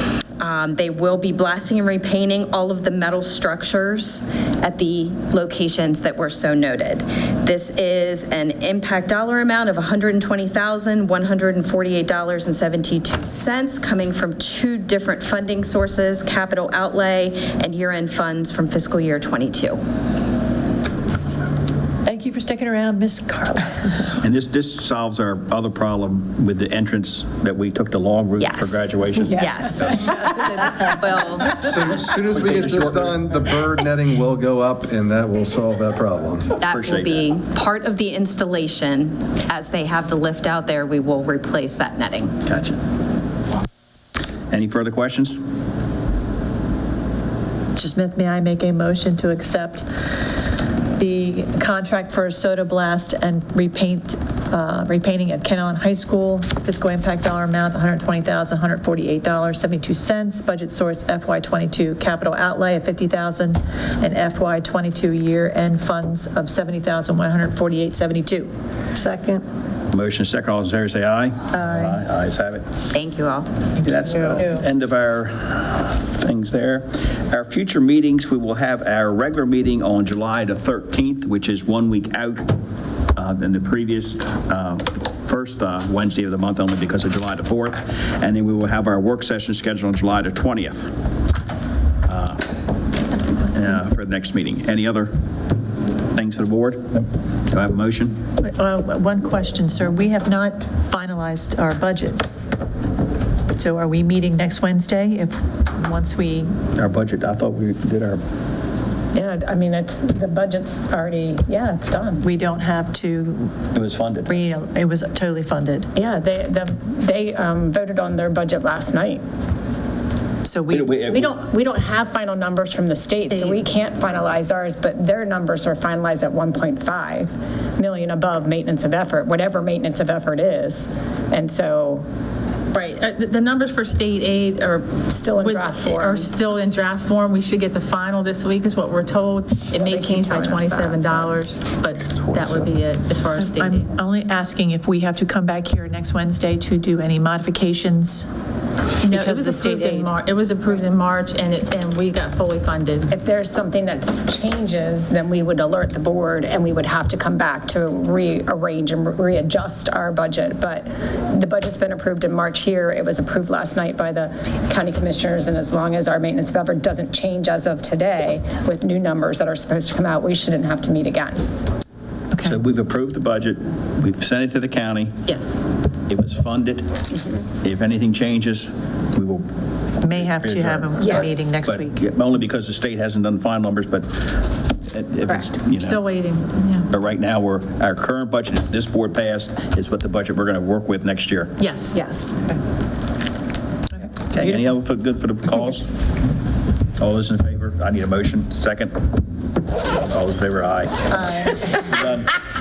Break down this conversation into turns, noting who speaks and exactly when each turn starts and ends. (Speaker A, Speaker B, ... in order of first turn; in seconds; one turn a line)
Speaker A: 0.4-19.8
Speaker B: 22.1-24.0
Speaker C: 24.2-30.1
Speaker A: 28.4-31.6
Speaker D: 31.5-36.5
Speaker C: 32.3-33.2
Speaker C: 36.6-37.1
Speaker A: 36.6-42.4
Speaker C: 42.5-42.8
Speaker C: 44.5-45.4
Speaker B: 47.7-49.9
Speaker B: 51.0-69.4
Speaker C: 69.9-72.7
Speaker B: 71.5-72.0
Speaker A: 72.9-73.5
Speaker B: 73.8-74.6
Speaker C: 73.8-82.5
Speaker C: 83.2-90.9
Speaker C: 92.1-92.4
Speaker C: 93.5-95.1
Speaker C: 96.1-98.2
Speaker B: 98.4-102.2
Speaker B: 103.5-106.5
Speaker C: 106.8-108.2
Speaker E: 109.1-112.2
Speaker B: 112.2-113.6
Speaker C: 113.7-114.4
Speaker B: 114.3-115.9
Speaker E: 116.0-119.2
Speaker B: 120.4-120.9
Speaker C: 120.7-121.4
Speaker E: 121.0-132.0
Speaker B: 123.3-123.6
Speaker F: 132.7-143.8
Speaker E: 135.1-136.3
Speaker E: 139.7-141.3
Speaker B: 143.3-148.3
Speaker F: 149.0-153.1
Speaker B: 149.0-150.1
Speaker E: 153.1-171.4
Speaker B: 172.3-172.6
Speaker C: 172.4-175.2
Speaker F: 175.3-175.6
Speaker C: 176.1-177.1
Speaker C: 177.6-179.5
Speaker B: 180.0-182.0
Speaker C: 180.0-186.0
Speaker E: 181.0-181.3
Speaker F: 185.8-186.9
Speaker C: 186.9-191.6
Speaker F: 191.6-192.0
Speaker E: 191.9-192.4
Speaker C: 194.3-195.9
Speaker C: 197.0-199.1
Speaker C: 199.9-202.3
Speaker B: 201.1-201.8